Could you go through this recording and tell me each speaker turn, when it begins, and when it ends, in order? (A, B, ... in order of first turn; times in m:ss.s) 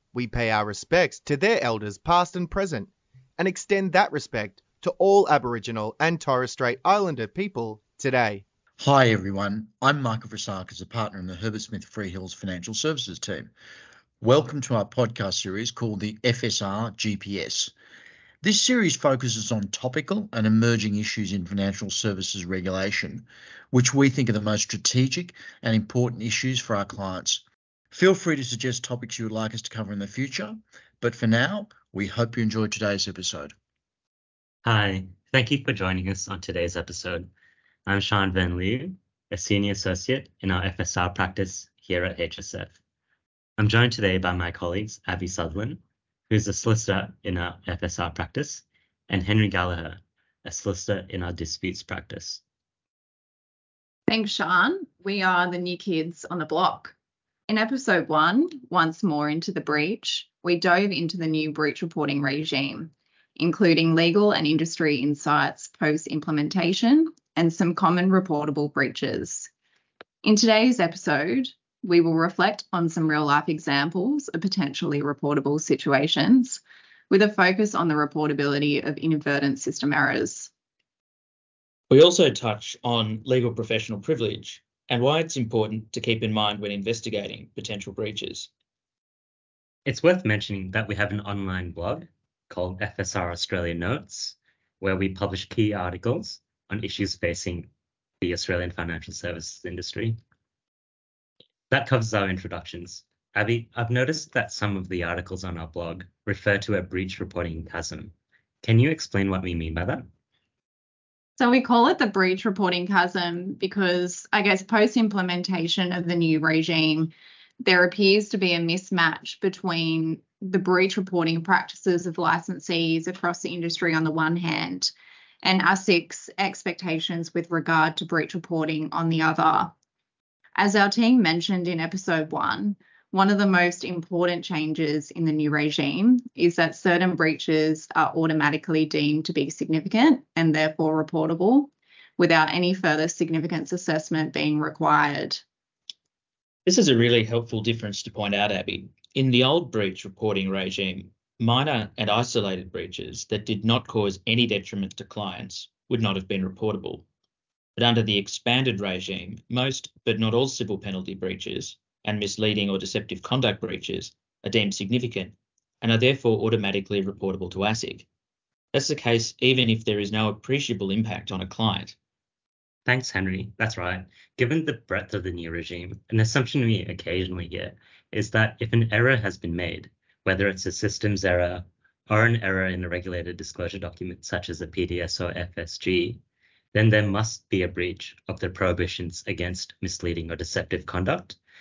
0:00.1-0:08.4 A
0:08.8-0:13.5 B
0:14.2-0:17.7 B
0:18.4-0:33.5 B
0:34.6-0:37.3 C
0:37.9-0:42.7 C
0:43.6-0:52.4 C
0:54.1-0:56.9 D
0:57.5-1:09.5 D
1:10.2-1:20.5 D
1:21.9-1:28.5 E
1:29.8-1:37.7 C
1:38.2-1:40.2 C
1:41.7-1:50.0 C
1:51.4-2:09.7 D
2:10.6-2:25.4 D
2:26.7-2:37.0 E
2:37.8-2:48.1 E
2:48.7-2:52.0 E
2:52.9-3:06.2 C
3:06.7-3:11.4 C